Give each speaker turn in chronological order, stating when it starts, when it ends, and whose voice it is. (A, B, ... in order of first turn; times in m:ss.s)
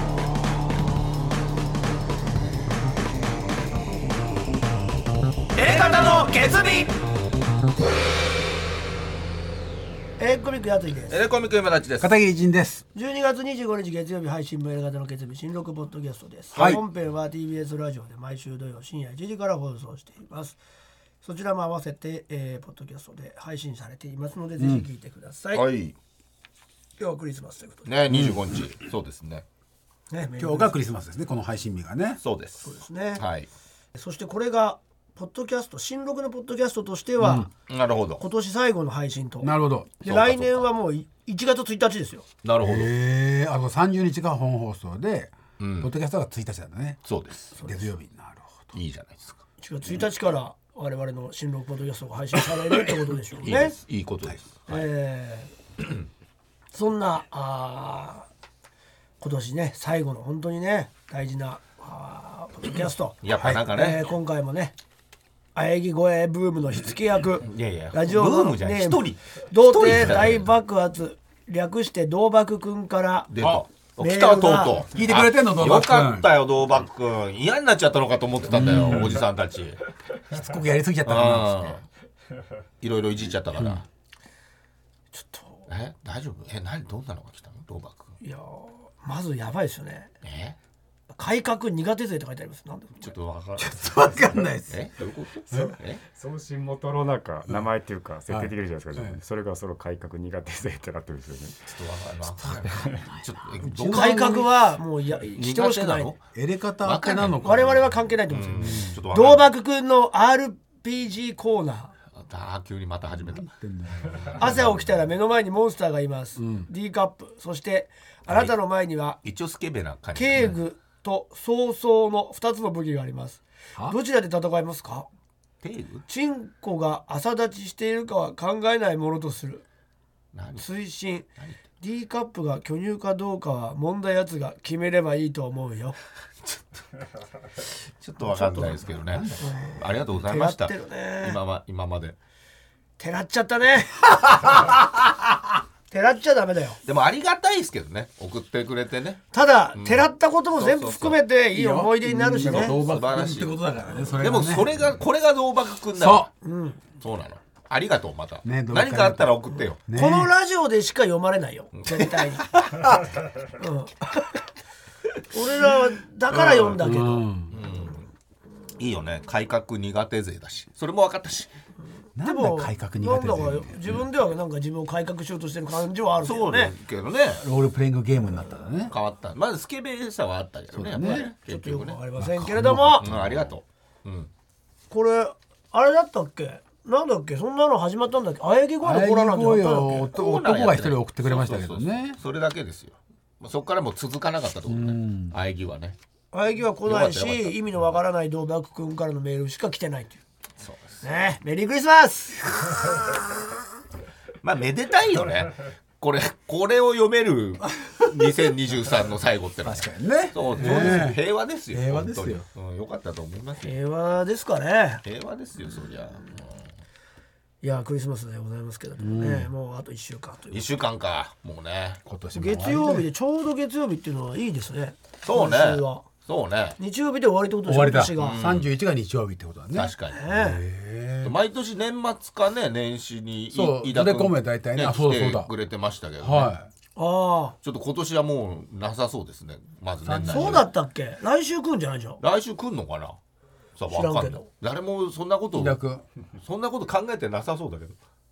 0:05.6-0:06.9 A
0:10.2-0:11.2 B
0:11.1-0:12.1 A
0:12.0-0:12.8 C
0:12.9-0:20.6 B
0:16.5-0:16.8 C
0:21.2-0:25.6 B
0:24.6-0:24.8 C
0:25.5-0:26.0 A
0:27.0-0:27.9 B
0:27.8-0:29.4 A
0:28.1-0:28.6 C
0:30.1-0:30.7 B
0:30.4-0:32.2 C
0:32.2-0:33.5 A
0:32.6-0:33.2 B
0:33.9-0:37.5 B
0:37.2-0:37.5 C
0:37.7-0:38.2 A
0:38.2-0:42.2 B
0:39.4-0:40.0 C
0:40.0-0:40.7 A
0:42.4-0:42.9 A
0:42.6-0:48.8 C
0:45.6-0:45.9 A
0:47.0-0:47.5 A
0:47.6-0:47.8 B
0:48.7-0:49.4 A
0:49.6-0:53.8 B
0:52.7-0:54.8 A
0:54.7-0:55.5 B
0:56.7-0:58.3 B
0:59.2-1:04.7 B
1:03.2-1:04.1 A
1:05.5-1:13.3 B
1:07.4-1:10.4 A
1:13.3-1:19.8 A
1:14.0-1:14.8 B
1:14.9-1:16.3 C
1:18.5-1:19.3 C
1:20.3-1:21.8 C
1:21.0-1:21.8 A
1:22.8-1:23.8 A
1:25.1-1:25.7 B
1:25.7-1:28.1 A
1:28.2-1:30.1 B
1:30.2-1:30.6 A
1:31.1-1:33.1 B
1:33.0-1:36.0 A
1:33.6-1:34.9 C
1:35.5-1:35.8 C
1:36.1-1:41.7 D
1:38.3-1:39.2 C
1:41.7-1:44.4 A
1:42.4-1:44.5 C
1:42.7-1:43.0 D
1:43.8-1:46.1 B
1:45.2-1:46.2 A
1:46.3-1:47.9 C
1:46.8-1:47.8 A
1:47.4-1:51.9 B
1:48.3-1:49.5 A
1:48.6-1:49.0 C
1:52.1-1:55.0 A
1:53.2-1:54.4 C
1:54.4-1:59.2 B
1:56.4-1:56.7 C
1:58.3-1:58.5 A
1:59.2-2:00.6 A
2:00.1-2:05.1 B
2:05.6-2:06.0 A
2:06.1-2:09.6 B
2:10.3-2:10.7 A
2:10.6-2:11.2 B
2:11.8-2:16.0 B
2:16.4-2:16.8 A
2:17.6-2:22.2 A
2:18.2-2:21.4 B
2:18.9-2:19.5 C
2:23.0-2:24.6 B
2:24.4-2:24.7 C
2:25.9-2:26.8 B
2:26.8-2:29.2 A
2:29.3-2:32.8 B
2:29.7-2:31.2 A
2:31.5-2:34.7 C
2:32.4-2:36.3 A
2:36.0-2:36.3 C
2:36.4-2:36.8 B
2:37.0-2:39.8 A
2:38.4-2:40.3 C
2:39.9-2:42.4 B
2:41.8-2:42.8 A
2:43.6-2:44.3 B
2:45.3-2:47.3 B
2:46.3-2:46.8 A
2:46.8-2:47.5 C
2:47.5-2:48.1 A
2:48.8-2:51.5 A
2:52.2-2:54.0 C
2:52.2-2:56.7 B
2:56.2-2:57.4 A
2:57.4-2:58.9 C
2:58.9-3:02.0 A
3:00.7-3:01.3 C
3:01.4-3:03.0 B
3:02.2-3:03.4 C
3:03.0-3:04.3 A
3:04.9-3:10.1 B
3:08.8-3:12.2 C
3:10.0-3:16.0 A
3:14.7-3:15.3 C
3:16.3-3:20.2 B
3:16.8-3:17.6 A
3:20.6-3:21.0 A
3:21.0-3:23.0 B
3:24.4-3:33.7 A
3:29.6-3:31.2 C
3:31.7-3:32.4 C
3:33.6-3:35.0 B
3:35.0-3:36.7 A
3:37.6-3:40.6 B
3:39.0-3:39.5 C
3:40.5-3:42.0 A
3:42.0-3:43.1 C
3:42.3-3:46.0 B
3:45.2-3:46.8 A
3:46.8-3:48.4 B
3:47.6-3:51.3 C
3:48.2-3:48.7 A
3:49.7-3:50.2 A
3:50.1-3:50.6 B
3:51.2-3:56.5 A
3:53.5-3:55.5 C
3:56.2-3:56.7 C
3:57.0-3:57.6 B
3:57.6-4:00.7 A
4:00.0-4:00.6 C
4:00.2-4:02.2 B
4:02.2-4:03.2 A
4:03.8-4:05.8 A
4:03.9-4:04.5 B
4:05.5-4:06.0 C
4:06.4-4:08.0 A